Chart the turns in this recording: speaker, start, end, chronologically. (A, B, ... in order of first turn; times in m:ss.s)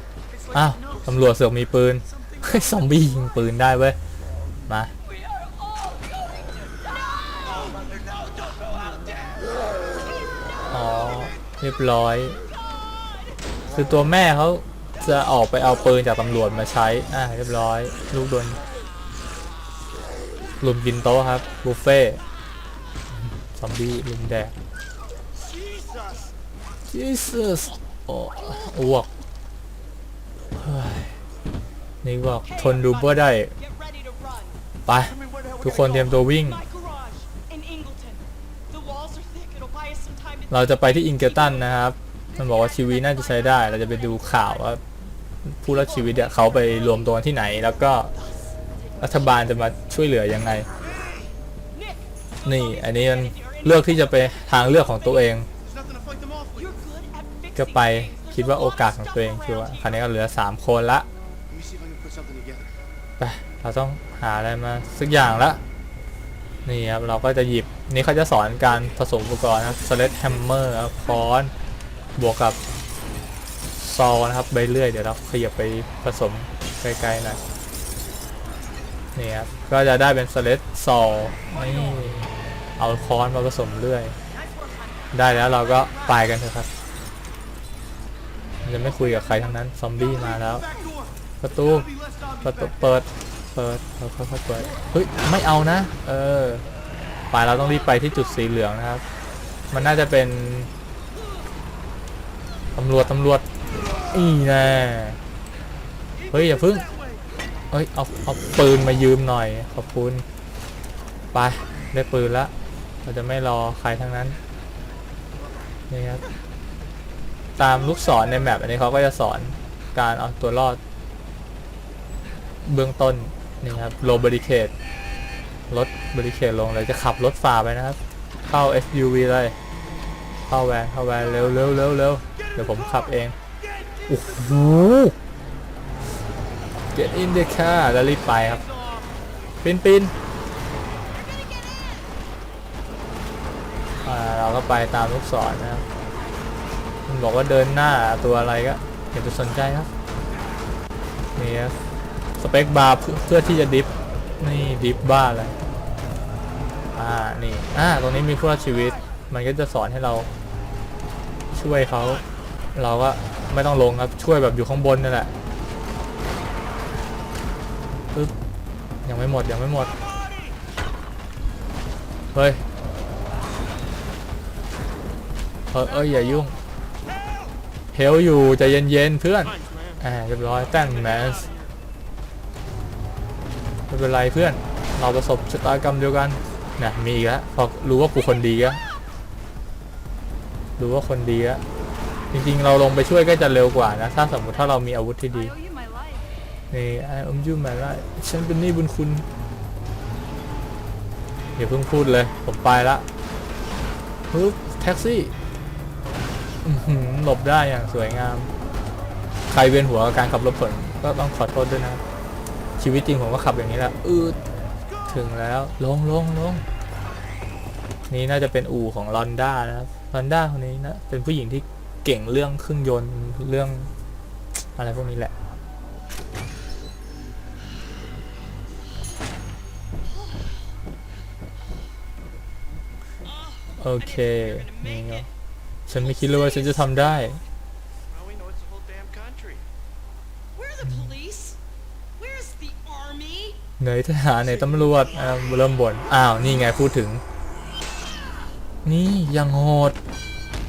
0:00.3-0:01.5 A
0:00.5-0:04.0 B
0:02.0-0:03.1 A
0:04.7-0:04.9 B
0:05.0-0:07.7 C
0:07.4-0:07.8 D
0:07.4-0:09.7 A
0:10.7-0:12.4 B
0:12.3-0:13.4 D
0:13.7-0:18.6 B
0:20.6-0:22.2 B
0:23.4-0:24.5 B
0:25.5-0:26.3 A
0:26.9-0:29.1 B
0:30.6-0:31.2 B
0:32.0-0:33.5 B
0:32.4-0:34.6 D
0:34.9-0:36.6 B
0:34.9-0:36.0 A
0:35.8-0:41.9 D
0:40.5-0:44.8 B
0:42.3-0:44.7 C
0:45.4-0:48.1 B
0:45.7-0:49.9 D
0:49.0-0:50.7 B
0:50.8-0:51.3 A
0:51.7-0:55.4 D
0:52.4-0:55.5 B
0:55.6-0:56.8 A
0:56.6-1:00.1 D
0:57.5-1:01.1 B
1:01.5-1:02.8 A
1:03.2-1:05.6 B
1:06.6-1:11.5 B
1:12.2-1:12.6 B
1:13.7-1:17.4 B
1:19.1-1:24.2 B
1:21.5-1:21.9 D
1:24.3-1:26.3 D
1:25.1-1:26.7 B
1:28.6-1:30.6 B
1:28.8-1:29.6 D
1:30.0-1:33.0 A
1:31.4-1:31.9 B
1:32.4-1:36.6 B
1:37.3-1:39.0 B
1:39.7-1:40.7 B
1:42.8-1:43.4 B
1:44.1-1:45.2 B
1:46.3-1:46.9 B
1:47.7-1:50.2 B
1:51.3-1:52.5 B
1:53.0-1:54.4 B
1:55.3-1:55.7 A
1:55.9-1:56.2 B
1:57.6-2:00.8 B
2:02.6-2:04.7 B
2:05.7-2:09.6 B
2:10.5-2:13.4 B
2:13.6-2:14.1 A
2:14.1-2:15.2 B
2:16.9-2:18.6 B
2:19.6-2:20.1 B
2:21.1-2:21.9 D
2:24.0-2:25.8 B
2:27.1-2:29.9 B
2:31.4-2:31.8 B
2:32.4-2:35.6 B
2:36.9-2:40.3 B
2:41.5-2:42.2 B
2:42.7-2:45.3 B
2:49.0-2:49.9 B
2:52.3-2:52.6 B
2:55.7-2:56.6 B
2:57.9-3:01.5 B
3:03.9-3:08.8 B
3:10.8-3:11.6 B
3:12.3-3:15.5 B
3:15.3-3:16.2 C
3:16.7-3:19.2 B
3:21.6-3:23.0 B
3:24.3-3:25.3 B
3:26.6-3:28.5 B
3:29.5-3:32.0 B
3:32.8-3:34.4 B
3:35.1-3:36.6 B
3:38.1-3:43.9 B
3:44.8-3:45.3 B
3:53.2-3:55.3 D
3:53.8-3:55.3 B
3:55.9-3:57.4 B
3:55.9-3:57.5 D
3:58.1-3:59.6 A
4:00.5-4:01.6 D
4:00.8-4:01.1 B
4:02.2-4:03.6 D
4:03.8-4:07.2 B
4:04.4-4:05.6 D
4:08.8-4:10.0 B